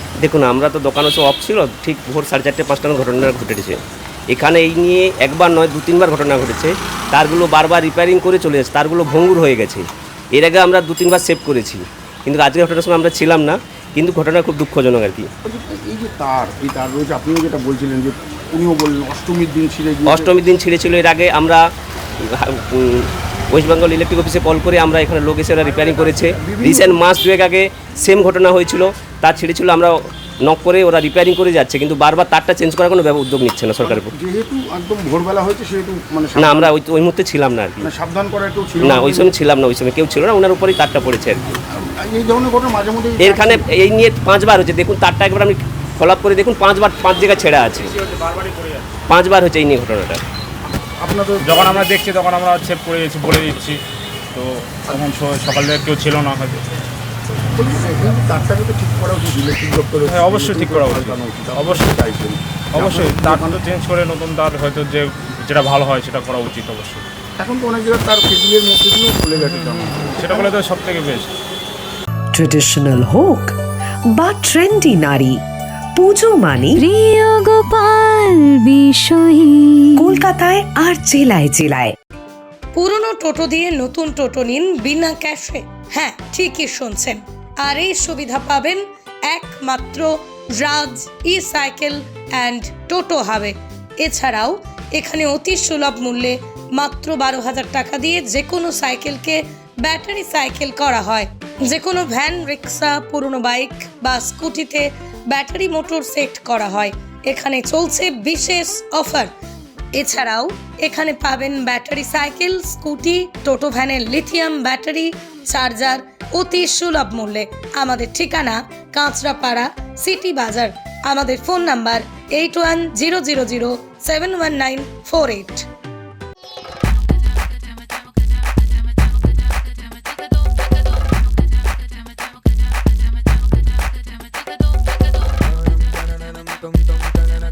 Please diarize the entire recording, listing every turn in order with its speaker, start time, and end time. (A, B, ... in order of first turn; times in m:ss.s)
0:00.2-0:03.8 A
0:04.3-0:15.3 A
0:15.4-0:20.3 B
0:20.1-0:21.6 A
0:22.2-0:34.1 A
0:25.6-0:27.0 B
0:33.8-0:36.7 B
0:36.4-0:37.9 A
0:37.8-0:39.3 B
0:38.8-0:41.5 A
0:41.7-0:43.7 B
0:43.2-0:47.9 A
0:47.8-0:48.9 C
0:49.1-0:50.2 A
0:51.0-0:51.9 B
0:51.4-0:53.8 C
0:54.3-0:56.6 C
0:57.5-1:03.6 B
1:00.0-1:01.9 C
1:02.7-1:07.0 C
1:07.4-1:10.5 B
1:09.3-1:11.3 C
1:12.3-1:13.5 D
1:14.1-1:15.4 D
1:16.0-1:16.8 D
1:16.8-1:20.1 E
1:20.0-1:22.0 D
1:22.7-1:49.3 F
1:49.9-2:05.6 F